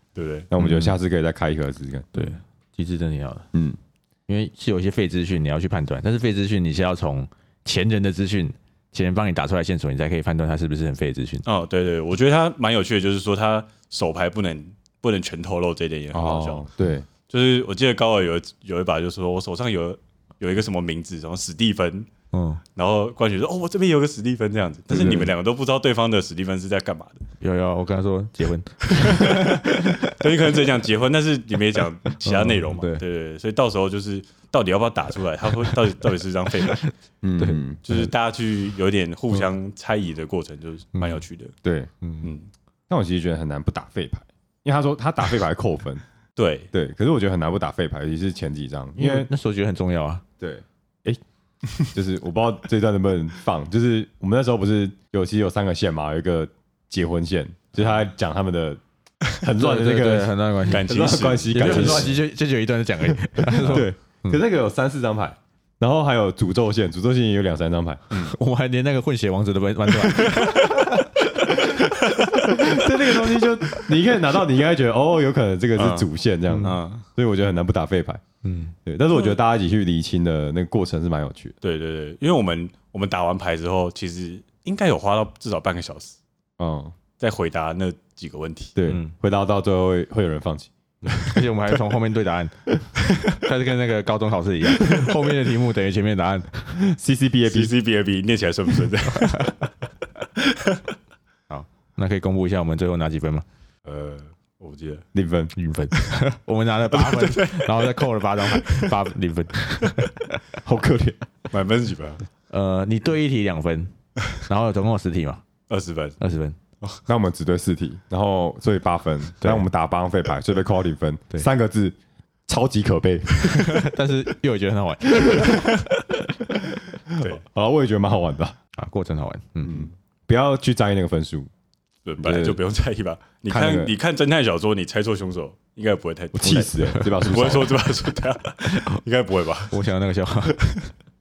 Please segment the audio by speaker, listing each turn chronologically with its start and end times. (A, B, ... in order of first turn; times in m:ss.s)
0:00.2-0:00.5 A
0:00.5-0:02.2 B
0:00.6-0:00.9 C
0:02.1-0:03.5 C
0:04.3-0:11.4 C
0:11.4-0:16.7 A
0:16.1-0:17.1 B
0:17.3-0:22.1 A
0:22.3-0:22.6 C
0:22.8-0:27.2 A
0:24.9-0:25.3 B
0:27.4-0:30.2 C
0:29.0-0:36.8 A
0:32.2-0:33.0 C
0:36.9-0:38.1 C
0:37.2-0:37.8 B
0:37.9-0:41.5 A
0:41.0-0:41.2 C
0:41.6-0:41.9 B
0:42.0-0:42.3 C
0:42.2-0:42.5 A
0:42.9-0:46.0 B
0:46.4-0:46.7 A
0:46.7-0:49.3 B
0:49.0-0:50.2 C
0:50.4-0:51.2 B
0:51.8-0:58.8 B
0:59.3-1:02.2 B
0:59.6-1:00.9 C
1:00.7-1:02.2 A
1:01.5-1:04.4 C
1:03.3-1:08.2 B
1:03.6-1:03.9 A
1:08.2-1:12.0 C
1:10.2-1:10.6 A
1:12.4-1:18.2 B
1:15.8-1:16.1 A
1:16.5-1:16.8 C
1:16.6-1:17.1 A
1:18.4-1:18.7 C
1:18.8-1:21.6 B
1:21.6-1:26.2 A
1:26.6-1:27.0 B
1:27.2-1:28.8 A
1:28.8-1:31.2 B
1:28.9-1:29.1 C
1:31.2-1:32.5 C
1:33.3-1:36.8 C
1:36.8-1:37.7 B
1:37.5-1:39.6 A
1:39.2-1:39.5 C
1:41.5-1:43.4 C
1:43.8-1:45.0 A
1:45.1-1:45.5 B
1:45.6-1:50.2 C
1:46.9-1:47.9 A
1:48.5-1:48.9 A
1:50.6-1:51.2 B
1:51.5-1:52.3 A
1:52.5-1:55.4 C
1:55.7-1:56.2 A
1:56.2-1:56.6 C
1:57.1-2:02.0 B
1:59.4-1:59.7 C
2:02.5-2:03.8 B
2:03.5-2:06.2 C
2:05.2-2:05.5 B
2:07.1-2:08.6 B
2:07.2-2:07.4 A
2:08.8-2:09.9 C
2:09.6-2:11.5 B
2:12.0-2:19.8 A
2:12.2-2:12.6 B
2:13.5-2:13.9 B
2:16.3-2:17.8 B
2:16.4-2:17.3 C
2:18.6-2:19.0 C
2:19.7-2:20.6 C